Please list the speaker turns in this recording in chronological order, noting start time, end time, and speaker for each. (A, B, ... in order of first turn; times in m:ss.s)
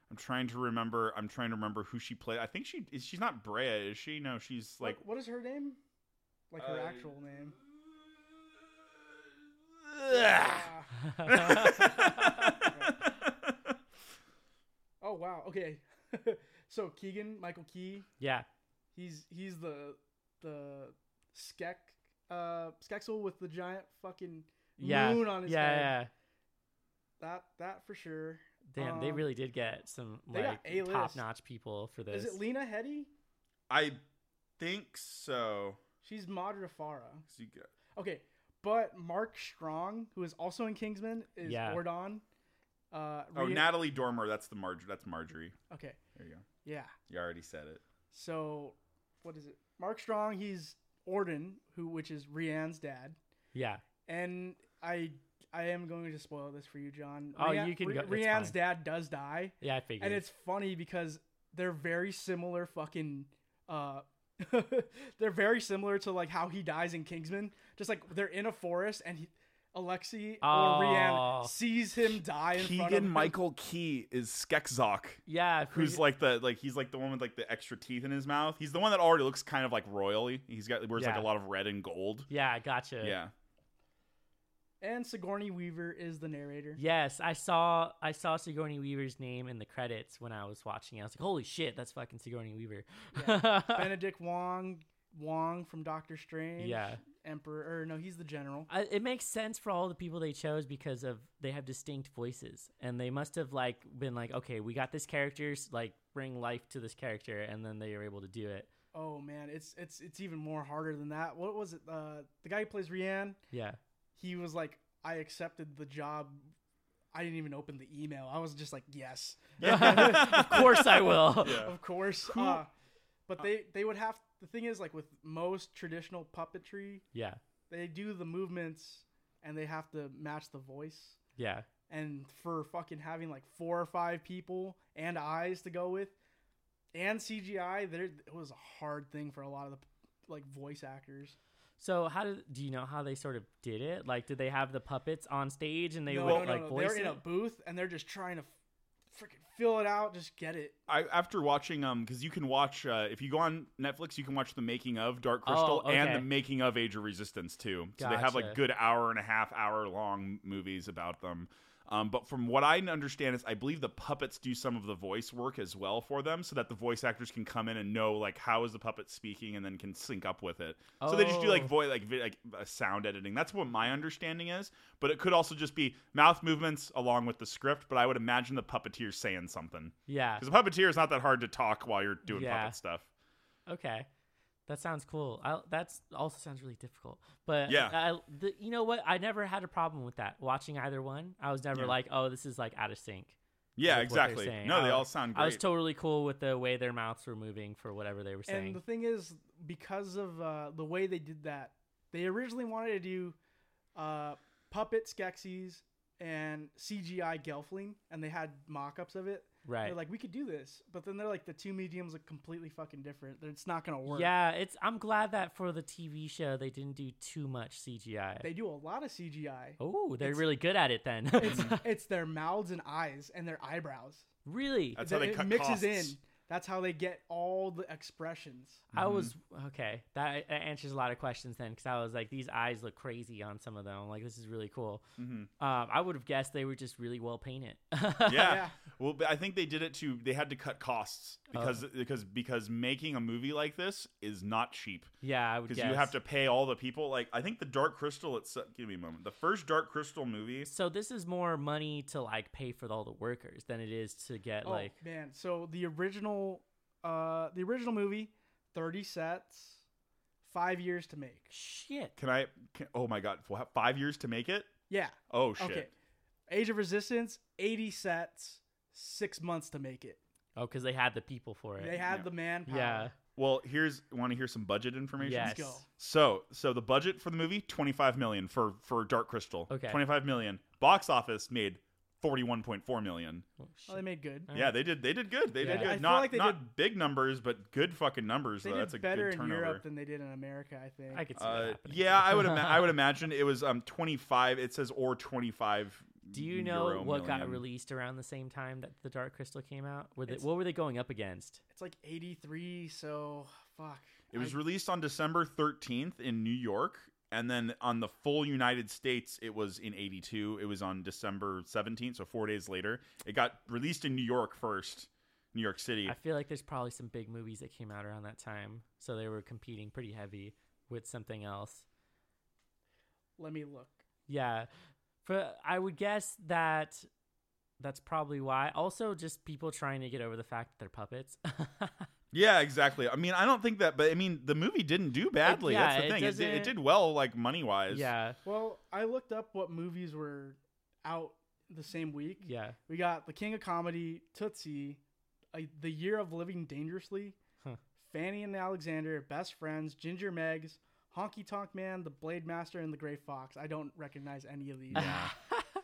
0:00.1-0:05.0 A
0:04.8-0:05.8 B
0:06.5-0:07.6 B
0:06.6-0:07.1 A
0:09.8-0:10.7 A
0:10.1-0:11.9 B
0:11.0-0:12.7 C
0:11.2-0:13.7 A
0:12.6-0:13.1 B
0:15.0-0:18.1 B
0:18.2-0:18.4 C
0:18.9-0:26.0 B
0:24.8-0:26.1 C
0:27.2-0:29.2 B
0:28.7-0:32.4 C
0:30.3-0:31.2 B
0:32.1-0:33.1 B
0:33.7-0:34.0 A
0:34.6-0:35.8 A
0:36.0-0:37.2 B
0:37.3-0:37.7 A
0:38.0-0:42.2 B
0:41.4-0:41.8 C
0:42.9-0:43.7 B
0:43.3-0:45.6 A
0:45.7-0:46.0 B
0:46.2-0:46.4 A
0:46.6-0:46.9 B
0:47.1-0:47.8 A
0:48.1-0:53.2 B
0:53.5-0:53.8 C
0:54.1-1:13.3 B
0:57.3-0:58.6 C
0:59.6-1:00.2 C
1:10.4-1:11.5 C
1:12.5-1:22.3 A
1:15.2-1:16.0 C
1:21.0-1:21.3 C
1:22.3-1:23.2 C
1:23.0-1:23.3 A
1:24.8-1:26.8 B
1:26.8-1:33.9 C
1:33.1-1:38.7 B
1:36.6-1:37.0 C
1:38.7-1:48.7 C
1:48.9-1:53.4 B
1:53.5-1:53.8 C
1:54.2-1:56.5 B
1:57.1-2:02.7 B
1:59.6-2:02.6 A
1:59.6-2:01.7 C
2:03.3-2:07.0 B
2:07.1-2:07.4 C
2:07.7-2:11.2 B
2:11.4-2:11.6 C
2:11.9-2:16.1 B
2:16.9-2:21.4 B
2:21.8-2:27.2 C
2:26.1-2:28.5 B
2:26.2-2:26.5 A
2:29.1-2:30.8 B
2:30.9-3:03.0 A
2:35.4-2:36.3 C
2:38.0-2:38.6 C
2:51.0-2:51.7 C
3:00.1-3:00.4 C
3:02.3-3:02.8 C
3:03.7-3:04.1 C
3:04.7-3:18.8 C
3:07.7-3:08.0 A
3:13.8-3:15.6 A
3:18.5-3:23.4 B
3:23.9-3:34.3 B
3:29.6-3:30.0 C
3:34.1-3:38.5 C
3:38.4-3:40.5 B
3:39.8-3:41.9 C
3:41.3-3:44.2 B
3:44.4-3:45.0 C
3:45.0-3:46.2 A
3:45.0-3:48.8 B
3:48.9-3:49.3 A
3:48.9-3:55.0 C
3:55.2-3:55.5 A
3:55.6-3:58.6 C
3:58.3-4:05.1 A
3:58.3-3:58.8 B
4:01.5-4:01.8 C
4:05.2-4:06.1 C
4:05.7-4:10.7 A
4:10.7-4:14.9 C
4:14.6-4:19.8 B
4:20.4-4:21.5 B
4:21.5-4:22.1 C
4:22.2-4:24.7 A
4:24.9-4:25.9 B
4:25.3-4:25.9 A
4:26.5-4:30.2 B
4:30.6-4:32.0 C
4:31.8-4:33.1 B
4:32.7-4:33.1 C
4:33.4-4:43.4 A
4:35.2-4:35.8 C
4:35.3-4:35.9 B
4:39.7-4:40.0 C
4:43.7-4:44.8 C
4:43.9-4:44.5 B
4:44.5-4:49.8 A
4:45.6-4:46.0 C
4:45.6-4:46.6 B
4:48.6-4:51.3 B
4:51.1-4:52.9 C
4:51.4-4:57.6 A
4:56.3-5:01.6 C
5:01.7-5:04.6 B
5:04.3-5:16.1 A
5:16.0-5:21.9 C
5:23.4-5:24.0 B
5:24.3-5:24.7 C
5:25.2-5:27.1 C
5:27.8-5:32.1 C
5:32.3-5:38.1 A
5:35.4-5:36.7 C
5:37.9-5:38.4 C
5:38.4-5:45.0 B
5:42.4-5:42.8 C
5:45.5-5:47.4 B
5:48.0-5:55.1 B
5:54.9-5:55.3 A
5:54.9-5:55.6 C